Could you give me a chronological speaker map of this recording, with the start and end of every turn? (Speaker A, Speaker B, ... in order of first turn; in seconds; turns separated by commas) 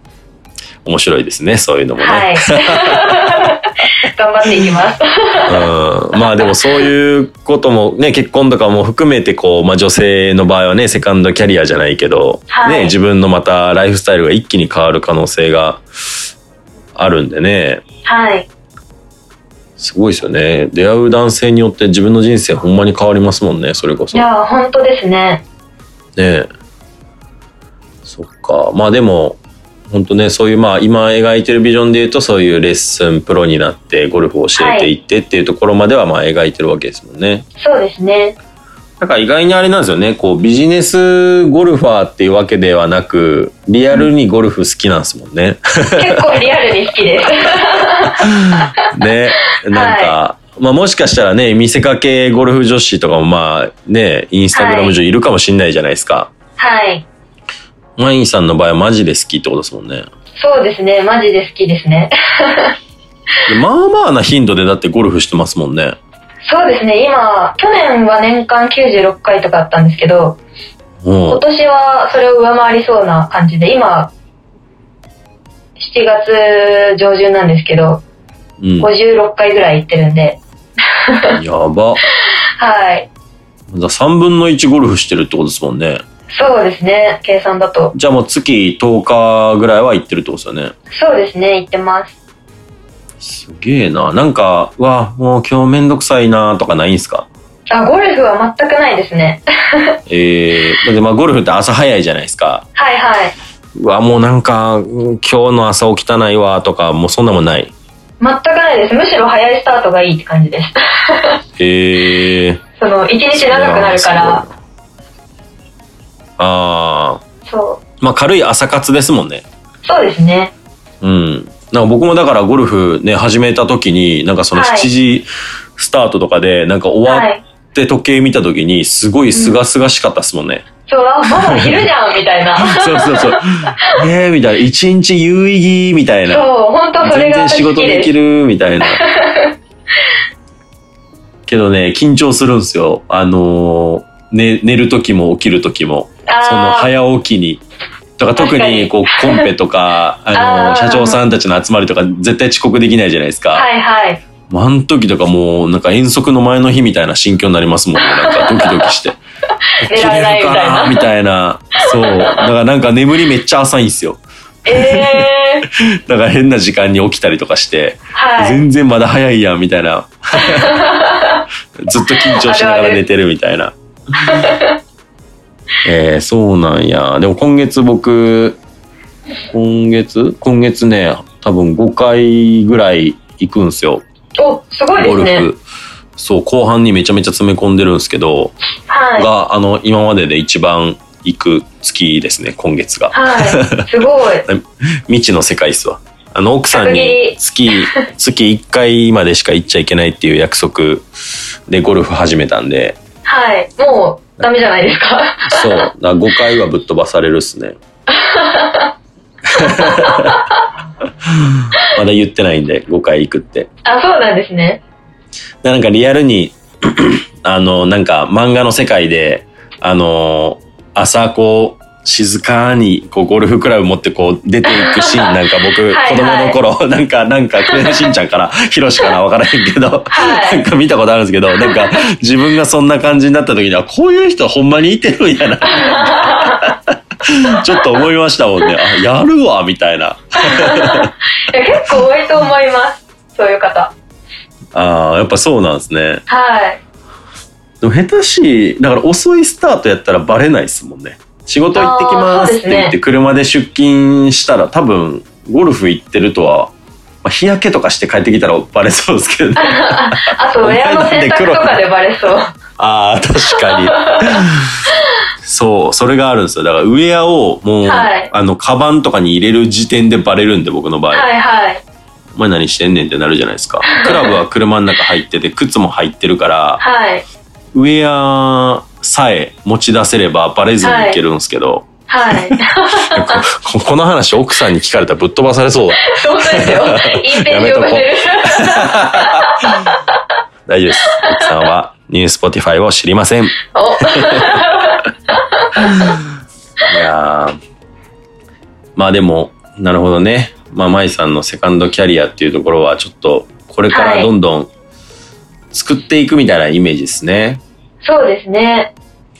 Speaker A: 0.8-3.4, Speaker B: 2.0-5.7, Speaker A: 5.5-15.8, Speaker B: 12.5-13.0, Speaker A: 17.0-17.8, Speaker B: 18.1-18.5, Speaker A: 19.8-24.2, Speaker B: 24.1-25.4, Speaker A: 26.2-26.5, Speaker A: 28.1-37.5, Speaker B: 34.6-34.9, Speaker B: 37.6-38.4, Speaker A: 39.0-46.5, Speaker B: 46.0-48.3, Speaker A: 48.2-56.3, Speaker B: 49.7-50.2, Speaker B: 54.5-55.0, Speaker B: 56.6-57.0, Speaker A: 58.0-60.1, Speaker B: 60.4-62.8, Speaker A: 63.5-66.0, Speaker B: 66.5-70.4, Speaker A: 71.0-71.4, Speaker B: 71.3-74.1, Speaker B: 75.8-78.0, Speaker A: 78.6-78.9, Speaker B: 78.8-80.4, Speaker A: 81.4-82.0, Speaker B: 82.6-83.1, Speaker A: 83.7-86.0, Speaker B: 86.3-87.9, Speaker A: 87.9-90.7, Speaker B: 90.9-92.2, Speaker A: 93.2-97.3, Speaker B: 97.7-100.0, Speaker A: 100.1-102.7, Speaker B: 102.8-103.3, Speaker A: 103.8-107.7, Speaker B: 108.2-111.4, Speaker A: 111.6-112.6, Speaker B: 112.8-114.4, Speaker A: 113.3-114.5, Speaker A: 116.4-117.2, Speaker B: 117.5-117.8, Speaker A: 118.0-119.5, Speaker B: 119.8-120.5, Speaker A: 121.0-130.7, Speaker B: 124.5-124.9, Speaker B: 127.1-127.4, Speaker B: 130.9-133.3, Speaker A: 131.3-131.8, Speaker A: 132.6-136.5, Speaker B: 136.3-138.1, Speaker A: 137.0-139.0, Speaker B: 138.8-139.5, Speaker A: 141.5-147.6, Speaker B: 146.3-146.9, Speaker A: 148.2-153.7, Speaker B: 148.4-149.4, Speaker B: 150.3-151.2, Speaker B: 153.6-154.2, Speaker A: 154.5-159.2, Speaker B: 158.0-158.7, Speaker A: 159.8-170.8, Speaker B: 159.9-161.1, Speaker B: 164.7-165.7, Speaker B: 168.1-168.7, Speaker B: 170.5-171.4, Speaker A: 171.8-173.8, Speaker B: 172.1-173.0, Speaker B: 174.2-174.8, Speaker A: 175.8-178.6, Speaker A: 179.5-184.0, Speaker B: 184.4-185.5, Speaker A: 184.9-185.6, Speaker A: 186.2-188.6, Speaker B: 188.9-189.3, Speaker A: 189.2-193.9, Speaker B: 193.1-194.5, Speaker A: 194.4-201.1, Speaker B: 196.7-197.4, Speaker A: 201.7-203.0, Speaker B: 203.2-205.7, Speaker A: 205.4-207.8, Speaker B: 208.1-208.9, Speaker A: 209.5-210.4, Speaker A: 211.9-213.7, Speaker B: 213.8-214.8, Speaker A: 215.6-236.7, Speaker B: 224.7-225.3, Speaker B: 225.9-226.6, Speaker B: 227.7-228.0, Speaker B: 230.1-230.6, Speaker B: 235.8-236.6, Speaker A: 237.3-241.1, Speaker B: 240.4-243.9, Speaker A: 244.7-246.2, Speaker B: 246.3-246.8, Speaker A: 247.8-261.7, Speaker B: 251.7-253.0, Speaker B: 259.6-262.5, Speaker A: 262.8-264.5, Speaker B: 263.6-264.4, Speaker A: 265.4-271.3, Speaker B: 267.9-268.3, Speaker B: 271.1-271.8, Speaker A: 272.4-276.8, Speaker B: 273.9-274.3, Speaker B: 276.8-277.2, Speaker A: 277.7-289.5, Speaker B: 280.8-281.2, Speaker B: 282.1-283.4, Speaker B: 286.0-289.5, Speaker A: 290.7-294.6, Speaker B: 293.7-295.0, Speaker B: 295.6-296.0, Speaker A: 296.9-297.6, Speaker A: 299.0-304.7, Speaker B: 303.9-304.3, Speaker A: 305.7-307.6, Speaker B: 308.0-308.9